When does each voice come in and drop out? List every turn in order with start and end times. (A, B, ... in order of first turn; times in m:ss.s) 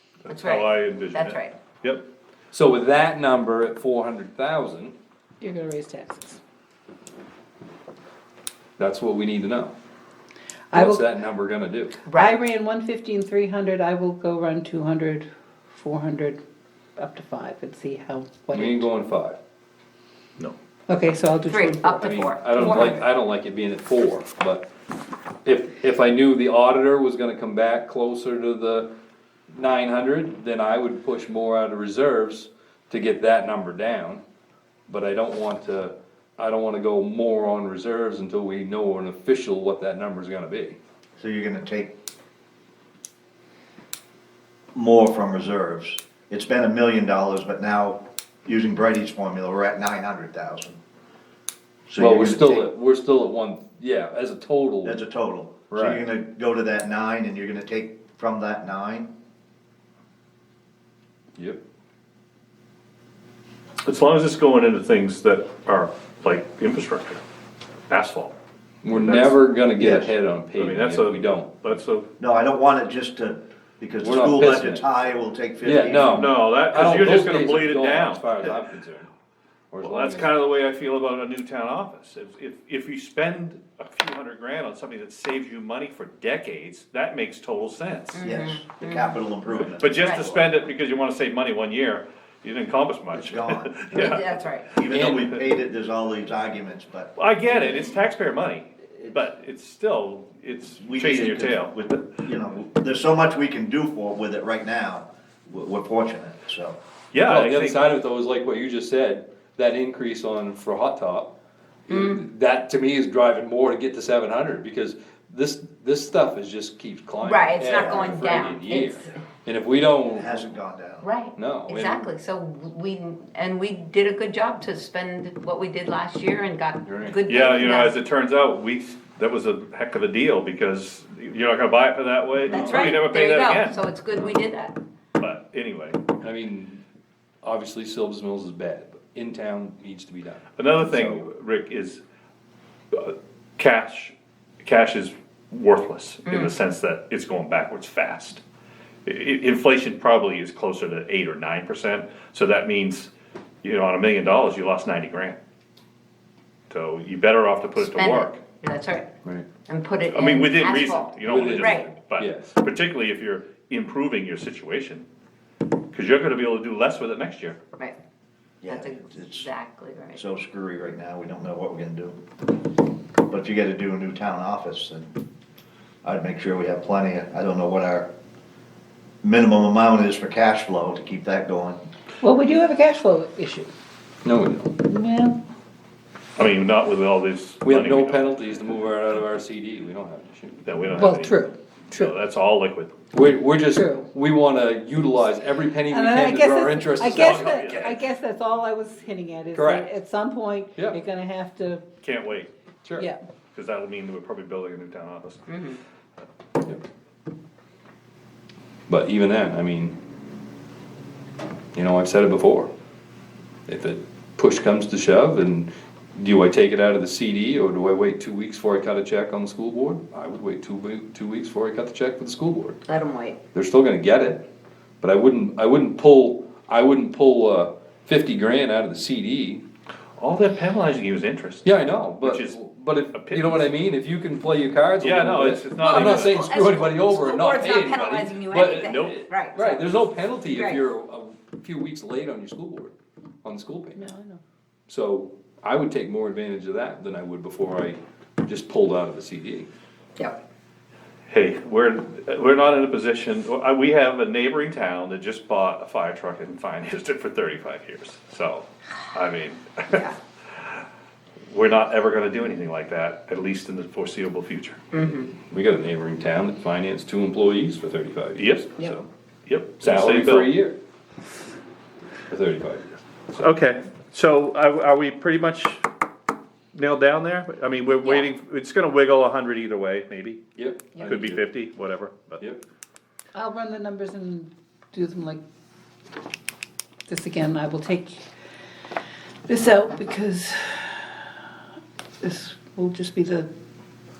0:00.2-0:02.0 A
0:00.3-0:01.6 B
0:02.5-0:04.9 C
0:05.4-0:06.4 D
0:08.8-0:09.7 C
0:10.7-0:11.1 D
0:10.7-0:12.0 C
0:12.0-0:12.3 B
0:12.1-0:16.4 D
0:17.0-0:18.9 D
0:18.5-0:19.4 C
0:20.9-0:23.0 D
0:21.5-0:22.5 B
0:22.0-0:24.7 C
0:25.4-0:28.9 C
0:29.5-0:34.2 C
0:34.9-0:40.8 C
0:41.2-0:41.9 E
0:44.7-0:50.8 E
0:51.9-0:52.7 E
0:52.0-0:55.0 C
0:54.8-0:59.1 E
0:55.7-0:56.0 C
1:01.4-1:01.6 C
1:03.8-1:07.2 A
1:07.9-1:08.3 A
1:08.8-1:11.8 C
1:09.0-1:10.1 E
1:10.5-1:12.1 A
1:12.2-1:16.3 E
1:14.0-1:14.9 C
1:15.6-1:19.1 C
1:16.1-1:18.4 A
1:19.7-1:20.4 C
1:19.8-1:28.2 A
1:28.1-1:29.2 B
1:28.2-1:30.5 E
1:29.8-1:35.2 A
1:30.0-1:30.3 B
1:33.1-1:34.1 E
1:33.9-1:34.7 B
1:34.8-1:37.1 E
1:37.2-1:41.8 A
1:40.8-1:46.8 E
1:47.1-1:47.9 A
1:47.2-1:51.3 C
1:51.9-2:00.5 C
1:51.9-1:52.2 B
1:57.2-1:59.1 B
1:57.7-1:58.1 E
2:00.1-2:01.1 E
2:01.0-2:08.0 B
2:01.4-2:02.1 C
2:06.8-2:07.2 C
2:07.3-2:13.8 A
2:12.4-2:14.8 B
2:12.5-2:13.0 C
2:15.2-2:16.0 A
2:16.2-2:16.8 C
2:17.4-2:21.3 C
2:20.6-2:22.0 A
2:22.9-2:28.4 A
2:26.2-2:26.5 B
2:29.0-2:33.1 A
2:33.6-2:35.4 A
2:36.7-2:38.4 A
2:37.8-2:39.1 B
2:39.7-2:41.9 B
2:40.1-2:45.0 A
2:41.2-2:42.6 C
2:45.9-2:47.6 A
2:48.6-2:49.5 E
2:48.7-2:50.2 B
2:50.2-2:52.2 E
2:53.3-2:55.1 E
2:56.0-2:58.1 E
2:59.2-3:01.8 E
3:02.2-3:03.7 D
3:04.2-3:04.9 C
3:04.8-3:05.4 D
3:06.4-3:08.3 A
3:07.6-3:10.6 C
3:10.6-3:12.9 A
3:10.9-3:12.2 D
3:13.1-3:18.0 C
3:13.7-3:14.1 D
3:15.8-3:21.8 D
3:17.1-3:18.0 A
3:19.5-3:19.9 C
3:22.0-3:22.5 A
3:23.5-3:25.5 A
3:25.5-3:25.8 B
3:28.9-3:30.0 C
3:31.7-3:32.7 C
3:33.7-3:42.8 C
3:42.8-3:43.4 B
3:43.5-3:44.4 C
3:45.0-3:49.6 C
3:50.2-3:52.6 A
3:51.6-4:04.0 C
3:53.1-3:53.7 A
3:55.0-3:56.5 A
3:55.8-3:59.8 B
3:58.8-3:59.1 A
4:00.4-4:00.9 B
4:03.9-4:04.4 D
4:04.9-4:09.7 C
4:11.3-4:20.1 A
4:21.5-4:24.8 A
4:24.9-4:25.3 B
4:25.5-4:29.0 C
4:28.4-4:28.8 A
4:29.5-4:30.5 A
4:29.8-4:30.8 C
4:32.3-4:32.9 C
4:33.3-4:35.8 A
4:36.7-4:40.4 A
4:40.6-4:41.4 C
4:41.0-4:42.4 A
4:43.3-4:45.4 D
4:47.1-4:48.2 D
4:49.4-4:50.9 D
4:52.2-4:53.5 D